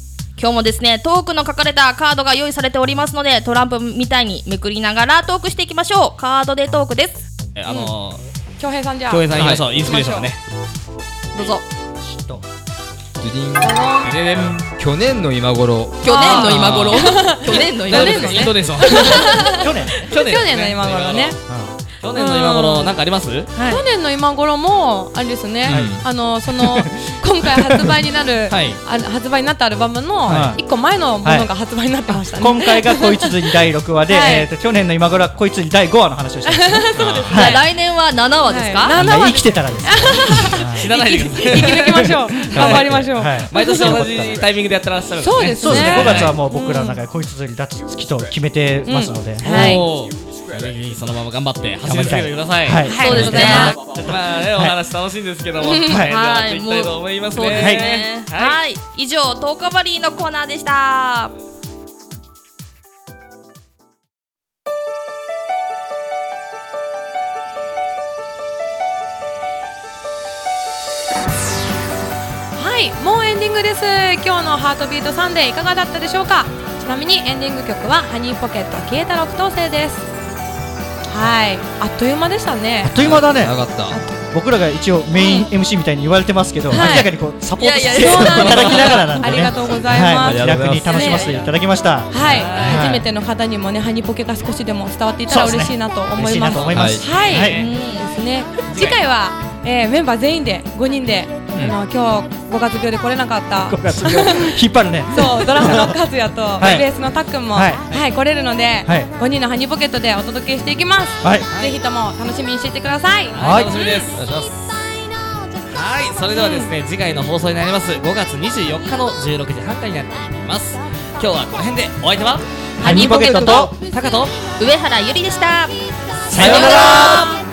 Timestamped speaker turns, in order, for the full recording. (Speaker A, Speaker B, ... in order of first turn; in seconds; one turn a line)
Speaker A: 0.4-7.2
Speaker B: 7.5-8.2
Speaker C: 8.6-10.3
Speaker B: 9.1-10.4
Speaker D: 9.3-9.7
Speaker A: 11.3-11.6
Speaker E: 12.0-12.4
Speaker D: 13.2-16.9
Speaker C: 13.6-14.0
Speaker B: 14.0-14.6
Speaker A: 16.0-19.1
Speaker C: 16.0-21.4
Speaker B: 16.2-19.5
Speaker E: 19.4-20.1
Speaker B: 20.1-21.4
Speaker E: 21.5-21.7
Speaker B: 22.0-23.5
Speaker C: 22.1-22.9
Speaker A: 23.6-23.8
Speaker C: 23.6-33.3
Speaker D: 25.7-26.0
Speaker E: 25.7-27.9
Speaker B: 28.5-28.8
Speaker E: 30.3-30.6
Speaker E: 31.2-31.5
Speaker E: 32.3-37.6
Speaker C: 34.1-34.5
Speaker C: 36.5-37.6
Speaker D: 37.0-37.4
Speaker A: 37.3-39.0
Speaker C: 38.5-44.1
Speaker E: 39.0-41.0
Speaker B: 40.5-46.4
Speaker E: 41.5-44.4
Speaker C: 45.2-47.0
Speaker E: 45.5-49.6
Speaker C: 48.9-49.9
Speaker A: 49.4-49.9
Speaker B: 49.5-58.6
Speaker E: 51.8-54.8
Speaker C: 52.9-53.7
Speaker A: 52.9-53.8
Speaker A: 55.9-61.3
Speaker E: 57.6-57.9
Speaker C: 72.6-80.0
Speaker C: 81.1-83.0
Speaker E: 82.8-83.6
Speaker B: 83.0-84.0
Speaker C: 83.9-84.3
Speaker E: 84.3-93.1
Speaker C: 85.2-85.5
Speaker C: 86.7-87.1
Speaker A: 87.6-89.5
Speaker C: 88.0-91.3
Speaker D: 90.2-91.1
Speaker C: 92.1-104.6
Speaker B: 92.2-92.8
Speaker A: 92.2-92.8
Speaker E: 95.3-97.6
Speaker D: 96.7-97.0
Speaker B: 97.0-97.7
Speaker A: 97.4-98.1
Speaker E: 103.6-105.9
Speaker C: 105.1-113.7
Speaker E: 106.6-106.9
Speaker E: 107.5-108.0
Speaker E: 111.2-111.5
Speaker B: 111.5-111.8
Speaker B: 113.3-114.2
Speaker E: 113.4-113.9
Speaker D: 114.1-114.5
Speaker B: 115.7-124.4
Speaker C: 122.8-123.6
Speaker E: 122.8-123.7
Speaker A: 124.6-125.8
Speaker E: 126.3-127.3
Speaker A: 126.3-127.4
Speaker B: 126.6-127.0